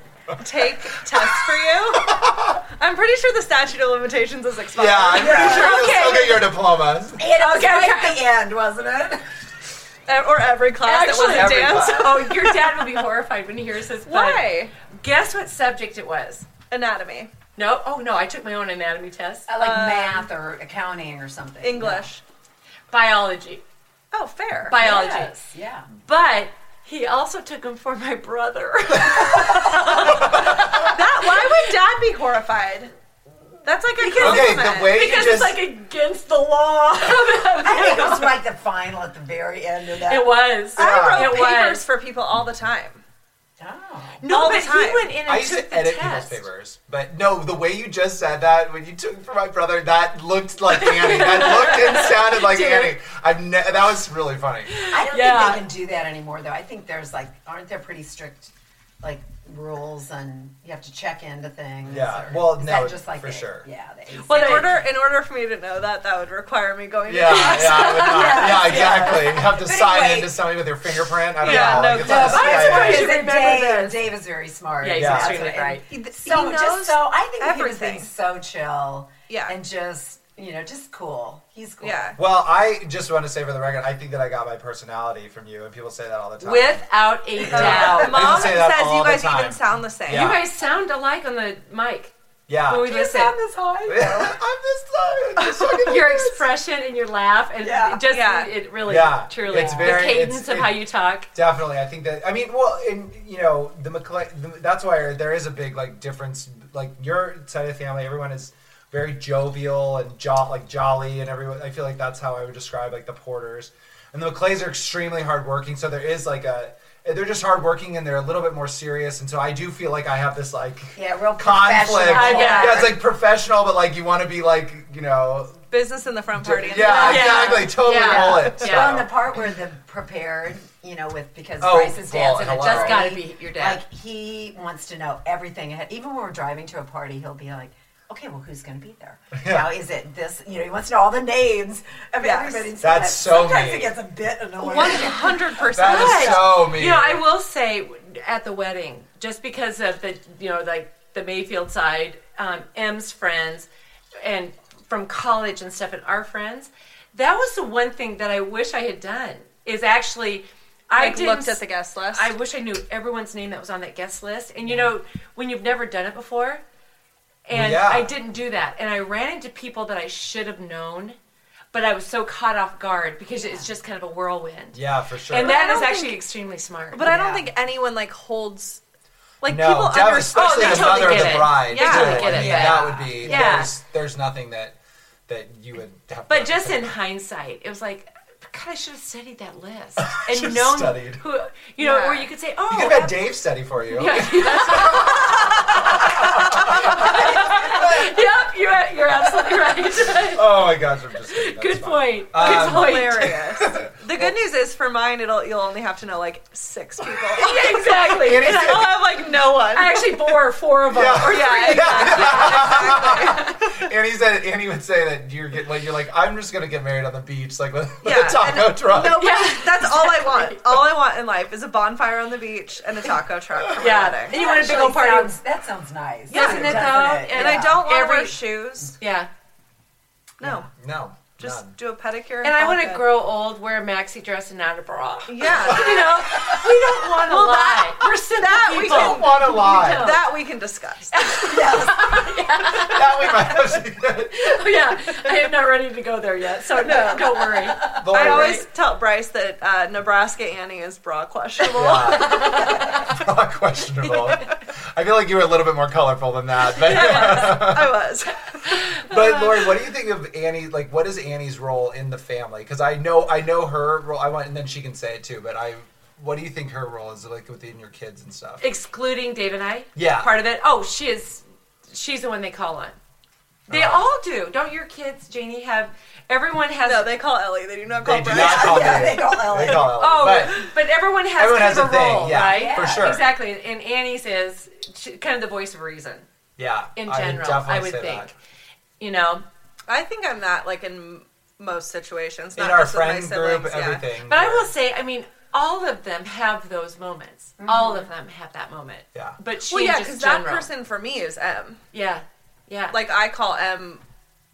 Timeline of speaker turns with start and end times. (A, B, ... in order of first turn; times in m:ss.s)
0:00.4-0:06.1 A
0:01.1-0:02.6 B
0:04.8-0:07.2 B
0:05.1-0:05.9 C
0:05.2-0:06.5 D
0:07.2-0:09.2 C
0:07.4-0:08.2 D
0:10.1-0:12.6 A
0:10.8-0:16.5 D
0:11.2-0:12.3 B
0:14.1-0:14.7 A
0:16.7-0:17.3 A
0:17.6-0:19.5 D
0:19.5-0:22.1 C
0:19.6-0:20.3 A
0:21.6-0:22.2 A
0:22.9-0:23.6 D
0:24.1-0:24.8 A
0:24.7-0:31.0 D
0:24.8-0:25.9 C
0:30.1-0:32.9 A
0:30.1-0:30.8 B
0:33.6-0:35.2 A
0:34.0-0:38.4 D
0:34.2-0:35.6 B
0:37.6-0:40.3 C
0:40.1-0:41.9 D
0:40.8-0:41.3 B
0:40.8-0:43.0 A
0:43.6-0:44.2 C
0:44.2-0:46.4 D
0:44.3-0:45.1 A
0:45.2-0:54.8 B
0:50.7-0:53.0 D
0:54.7-0:55.6 D
0:54.9-1:04.8 C
1:01.8-1:03.7 B
1:04.2-1:04.8 D
1:04.3-1:08.5 A
1:07.1-1:13.2 B
1:07.3-1:09.3 D
1:08.0-1:10.4 C
1:11.4-1:13.0 A
1:11.5-1:22.2 C
1:12.0-1:14.0 D
1:14.8-1:15.9 D
1:14.9-1:15.6 B
1:15.9-1:18.1 A
1:19.3-1:19.6 A
1:21.8-1:22.2 A
1:22.2-1:30.5 B
1:26.4-1:28.4 D
1:27.4-1:28.5 C
1:27.5-1:30.4 A
1:30.1-1:32.1 D
1:32.5-1:32.9 B
1:32.7-1:33.4 D
1:32.8-1:34.4 C
1:33.9-1:36.4 B
1:35.8-1:41.3 D
1:37.6-1:38.1 C
1:38.1-1:38.5 A
1:38.8-1:40.8 B
1:39.5-1:40.0 C
1:41.3-2:05.6 B
2:01.0-2:03.0 C
2:02.0-2:03.0 D
2:05.7-2:07.7 A
2:06.3-2:09.2 B
2:06.8-2:25.6 C
2:06.8-2:09.0 D
2:11.6-2:13.1 B
2:12.3-2:13.8 D
2:19.4-2:19.7 B
2:22.2-2:22.7 A
2:22.8-2:24.0 B
2:24.6-2:26.6 A
2:25.7-2:27.2 B
2:25.8-2:33.7 D
2:34.2-2:41.6 D
2:40.9-2:42.3 A
2:42.1-2:46.6 D
2:47.5-2:51.2 D
2:47.5-2:48.2 B
2:51.7-2:57.2 D
2:53.4-2:53.7 C
2:54.7-2:55.6 B
2:55.3-2:56.2 A
2:56.9-2:58.8 A
2:57.0-2:57.5 C
2:59.4-3:02.8 A
2:59.4-3:04.8 B
3:00.3-3:03.7 D
3:02.4-3:03.7 C
3:05.3-3:06.9 B
3:06.3-3:13.3 D
3:10.0-3:11.2 B
3:11.8-3:12.3 A
3:12.7-3:18.1 B
3:13.9-3:20.6 D
3:20.3-3:24.4 B
3:21.3-3:23.3 D
3:22.4-3:30.3 A
3:27.4-3:28.9 D
3:27.9-3:29.0 B
3:29.7-3:33.5 D
3:30.9-3:39.3 B
3:31.2-3:33.8 A
3:38.0-3:44.4 A
3:39.0-3:40.8 D
3:43.8-3:45.4 D
3:44.3-3:47.8 C
3:46.3-3:49.0 A
3:46.3-3:49.3 D
3:50.4-3:50.7 A
3:50.4-3:51.8 B
3:51.4-3:53.0 A
3:52.4-4:00.3 D
3:55.3-3:56.1 A
3:55.6-3:56.6 B
3:57.3-4:01.4 A
3:58.8-4:00.2 B
4:01.1-4:03.6 D
4:01.4-4:02.3 C
4:02.7-4:04.6 B
4:04.3-4:08.7 D
4:06.8-4:13.1 A
4:08.0-4:08.6 B
4:11.7-4:18.0 B
4:12.5-4:12.9 D
4:16.7-4:19.7 A
4:16.8-4:17.6 D
4:19.0-4:28.7 B
4:28.6-4:33.0 D
4:30.0-4:30.3 B
4:33.7-4:34.0 B
4:33.7-4:37.2 D
4:36.9-4:39.3 A
4:38.0-4:40.7 B
4:38.3-4:39.9 C
4:39.9-4:46.3 D
4:41.4-4:43.3 B
4:42.3-4:43.2 C
4:46.6-4:48.3 B
4:47.0-4:48.3 D
4:49.0-4:49.4 D
4:49.9-4:54.0 A
4:52.6-4:54.7 B
4:54.3-5:00.7 D
4:57.6-4:58.1 C
4:59.7-5:01.8 A
5:01.9-5:03.0 D
5:02.9-5:04.0 A